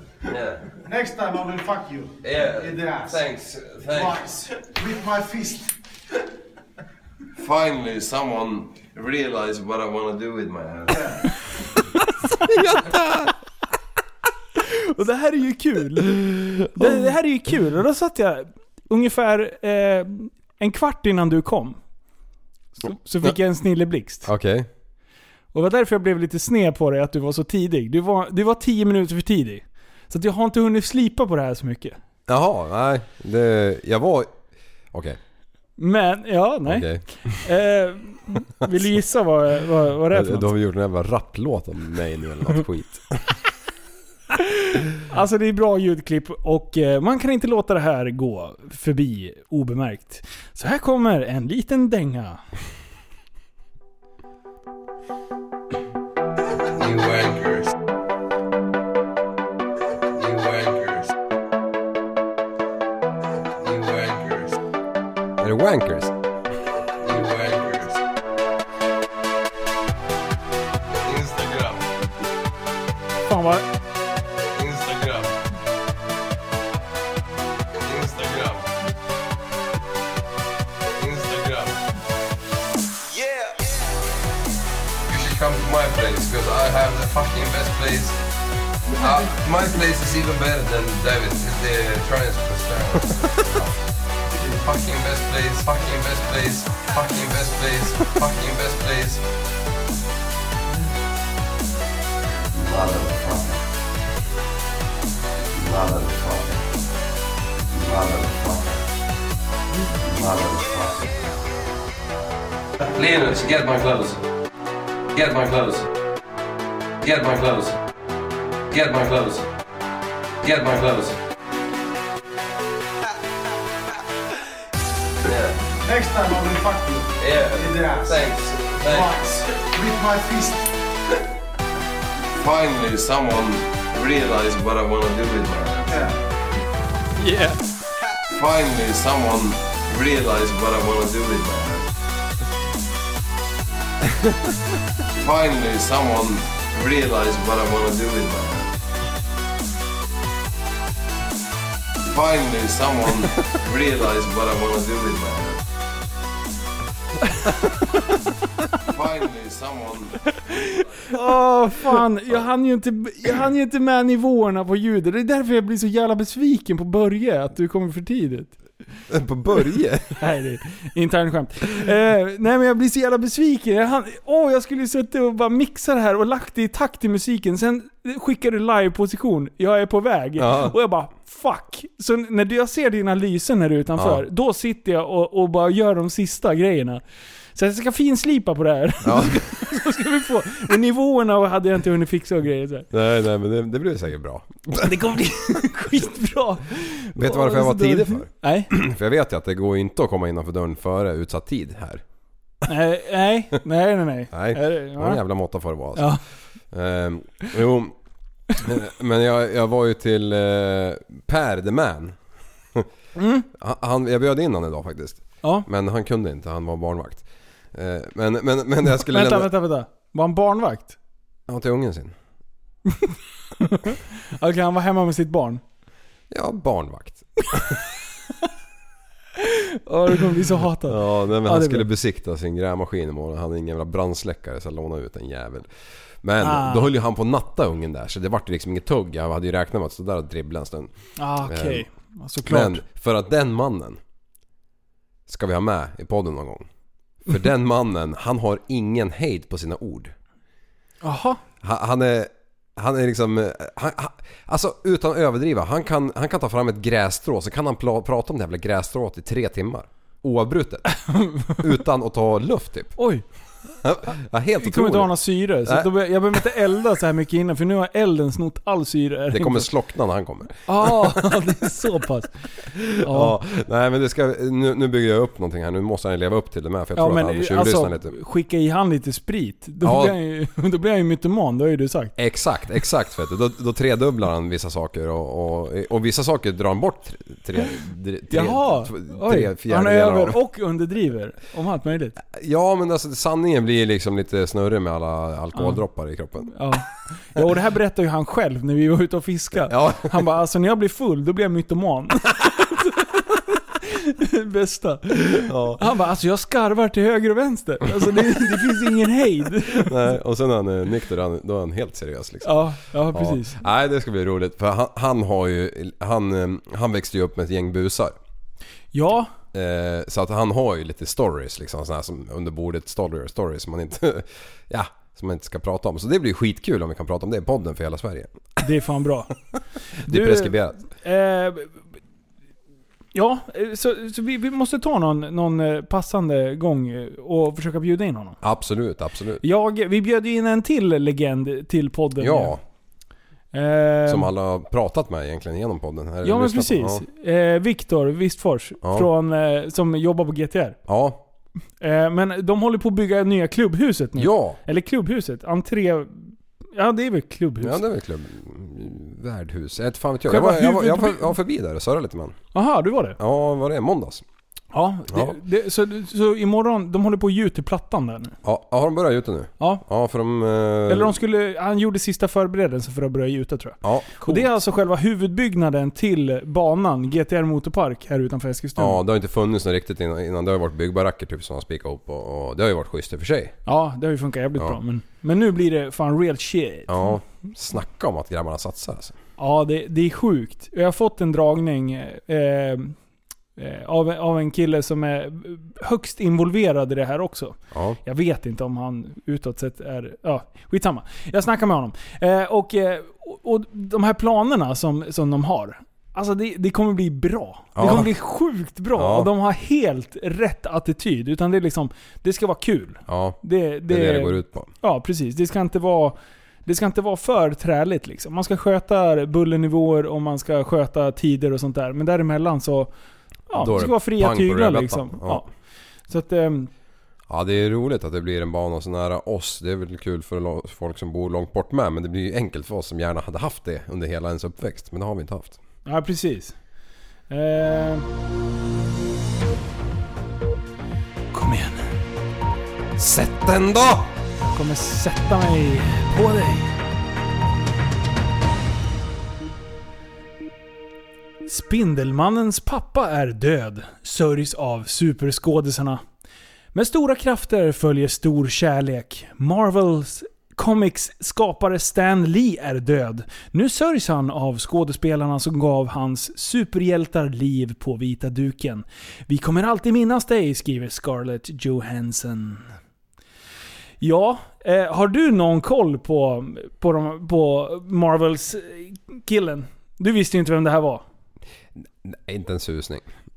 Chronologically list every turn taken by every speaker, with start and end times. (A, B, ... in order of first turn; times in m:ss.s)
0:00.3-0:00.7 A
0:00.8-0:03.2 B
0:02.2-0:04.3 A
0:03.9-0:05.8 B
0:07.4-0:11.2 A
0:12.4-0:13.3 C
0:14.6-0:21.8 D
0:16.1-0:17.0 C
0:22.8-0:24.3 D
0:24.2-0:24.7 C
0:25.5-0:32.0 D
0:32.3-0:34.4 C
0:34.9-0:35.2 C
0:35.8-0:40.5 D
0:36.7-0:37.4 C
0:40.1-0:43.2 C
0:44.4-0:52.4 D
0:56.8-0:57.7 A
1:00.1-1:01.1 A
1:03.6-1:04.6 A
1:05.4-1:06.1 C
1:07.0-1:08.0 A
1:11.0-1:11.9 A
1:13.3-1:13.6 D
1:14.5-1:15.3 A
1:17.8-1:18.7 A
1:21.0-1:21.8 A
1:25.1-1:28.2 A
1:29.0-1:33.7 A
1:34.3-1:39.2 A
1:42.5-1:43.6 C
1:45.6-1:46.6 C
1:45.7-1:46.1 A
1:47.7-1:48.8 C
1:50.0-1:51.1 C
1:52.8-1:54.2 A
1:55.1-1:55.9 A
1:57.0-1:57.8 A
1:58.7-1:59.5 A
2:00.4-2:01.2 A
2:05.2-2:05.6 A
2:05.8-2:08.2 B
2:07.2-2:09.2 A
2:08.9-2:10.7 B
2:12.4-2:16.1 A
2:15.9-2:16.2 B
2:17.2-2:17.6 D
2:18.3-2:21.9 A
2:25.2-2:28.8 A
2:32.0-2:35.6 A
2:38.9-2:40.8 A
2:41.1-2:48.6 D
2:49.1-2:50.1 C
2:50.2-3:07.0 D
3:00.4-3:00.7 C
3:04.0-3:04.2 C
3:07.6-3:12.9 D
3:09.0-3:09.5 C
3:12.9-3:15.0 C
3:14.8-3:18.7 D
3:17.2-3:22.0 C
3:22.7-3:25.2 D
3:24.3-3:26.2 C
3:26.0-3:26.2 D
3:26.7-3:28.0 C
3:28.6-3:32.2 C
3:33.2-3:33.5 D
3:33.5-3:39.5 C
3:38.9-3:41.0 D
3:41.5-3:42.2 C
3:42.9-3:45.6 D
3:46.3-3:47.8 C
3:49.4-3:51.9 D
3:50.8-3:55.7 C
3:56.2-4:00.9 C
3:56.4-3:56.9 D
4:01.2-4:02.8 D
4:01.4-4:01.8 C
4:02.4-4:04.0 C
4:05.3-4:06.7 C
4:07.3-4:10.1 C
4:11.0-4:11.4 D
4:11.6-4:20.9 C
4:21.1-4:21.5 D
4:21.5-4:23.0 C
4:23.0-4:23.2 D
4:23.8-4:25.9 C
4:24.6-4:29.7 D
4:29.3-4:31.1 C
4:30.7-4:32.3 D
4:32.8-4:38.1 C
4:33.0-4:33.4 D
4:37.0-4:42.1 D
4:39.8-4:40.2 C
4:42.2-4:50.4 C
4:48.3-4:52.2 D
4:52.3-4:56.6 C
4:55.6-4:55.8 D
4:56.5-5:10.1 D
4:59.7-5:00.2 C
5:05.4-5:05.8 C
5:09.7-5:18.2 C
5:12.4-5:13.6 D
5:18.9-5:19.3 D
5:19.5-5:28.6 C
5:28.6-5:29.3 D
5:30.0-5:31.7 D
5:30.1-5:30.8 C
5:33.2-5:38.4 D
5:38.4-5:39.4 C
5:39.4-5:42.6 D
5:42.2-5:42.6 C
5:43.5-5:44.3 D
5:44.1-5:47.0 C
5:46.2-5:50.8 D
5:48.8-5:49.1 C
5:50.9-5:51.2 C
5:51.8-5:57.8 D
5:54.2-5:54.6 C
5:57.6-6:02.4 C
6:00.3-6:01.3 D
6:02.5-6:03.2 D
6:03.2-6:04.2 C
6:04.7-6:08.4 D
6:05.1-6:05.4 C
6:08.4-6:11.2 C
6:10.9-6:19.0 D
6:13.8-6:14.5 C
6:18.8-6:23.6 C
6:23.7-6:27.1 D
6:26.9-6:29.2 C
6:29.4-6:33.0 D
6:33.6-7:02.9 D
6:37.7-6:38.0 C
6:47.8-6:48.1 C
6:49.0-6:49.3 C
6:53.1-6:54.7 C
7:03.5-7:05.5 D
7:03.5-7:05.5 C
7:06.1-7:06.7 D
7:07.3-7:15.6 C
7:15.9-7:16.6 D
7:17.3-7:18.1 D
7:21.3-7:21.9 D
7:23.0-7:24.1 C
7:24.4-7:26.7 D
7:31.4-7:36.0 D
7:36.7-7:52.7 D
7:54.0-8:01.0 D
8:02.0-8:03.1 C